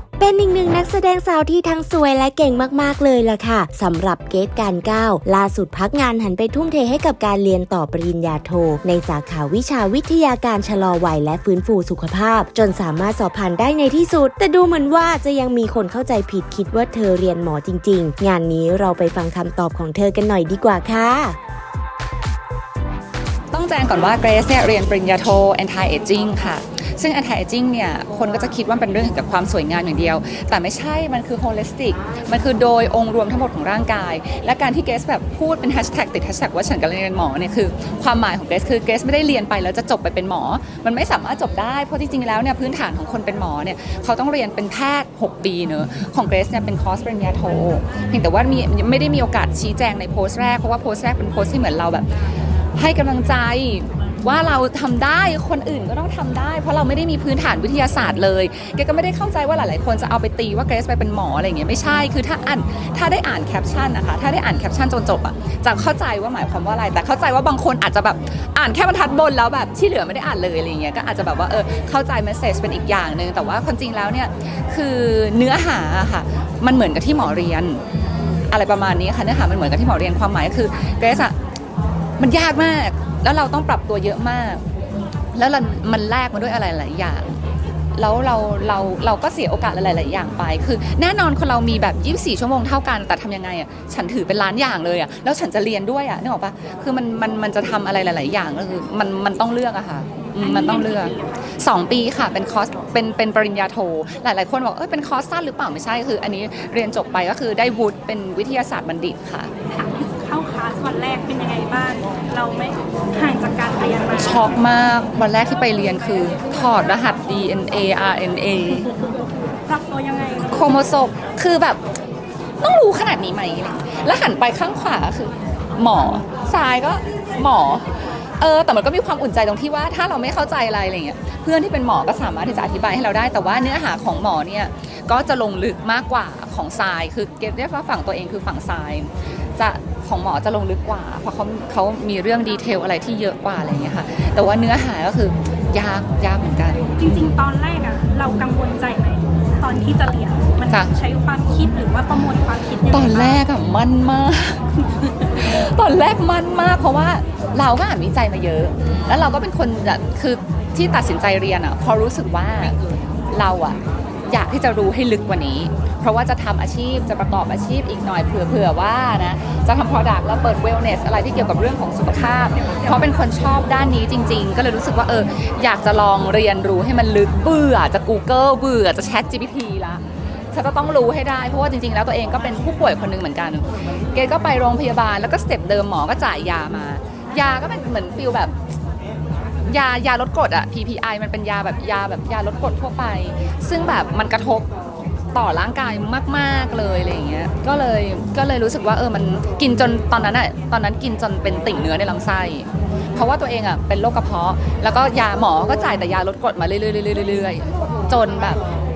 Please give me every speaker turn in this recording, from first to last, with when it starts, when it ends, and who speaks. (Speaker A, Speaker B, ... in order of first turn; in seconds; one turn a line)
Speaker A: 0.2-21.4
Speaker B: 23.5-77.8
Speaker B: 78.5-81.3
Speaker B: 82.2-84.6
Speaker B: 85.3-87.4
Speaker B: 87.9-109.5
Speaker C: 100.3-101.4
Speaker C: 109.7-114.6
Speaker B: 114.2-118.9
Speaker C: 119.7-120.6
Speaker B: 120.5-121.8
Speaker B: 122.6-147.3
Speaker C: 147.0-153.4
Speaker B: 152.9-162.8
Speaker B: 163.3-188.6
Speaker B: 189.6-194.7
Speaker B: 195.3-208.6